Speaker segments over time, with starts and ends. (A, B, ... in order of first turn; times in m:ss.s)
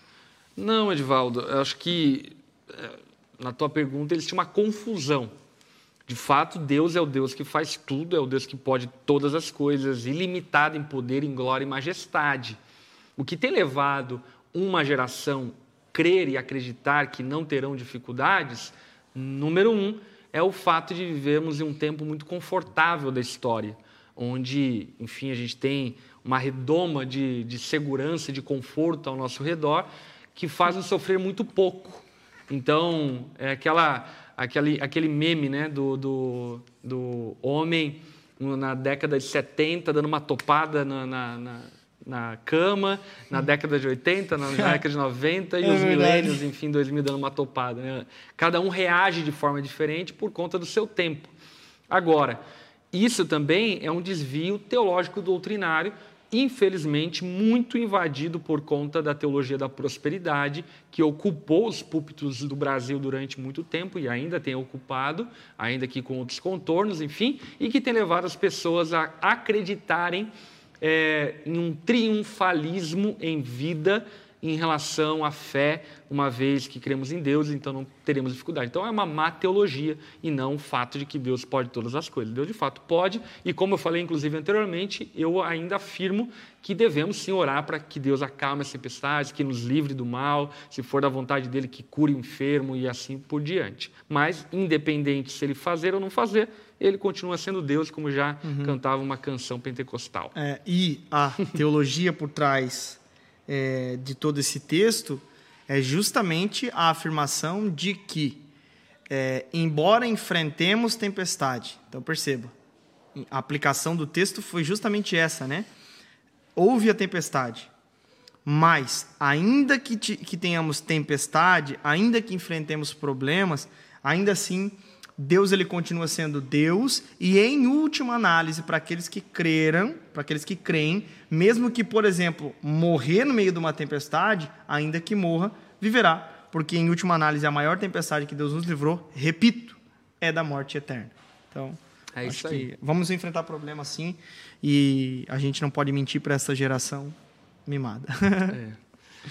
0:00.6-0:05.3 A
0:06.1-0:12.6 A
0:13.2-0:51.3 A
0:44.6-0:44.8 B
0:45.6-0:46.4 B
0:51.9-0:52.4 A
0:52.9-1:40.3 A
1:38.4-1:38.8 B
1:40.3-1:48.4 B
1:49.1-1:52.5 B
1:53.1-1:55.7 B
1:56.6-1:57.7 B
1:58.4-2:27.2 B
2:22.1-2:22.7 A
2:27.7-2:28.6 B
2:28.5-2:28.8 A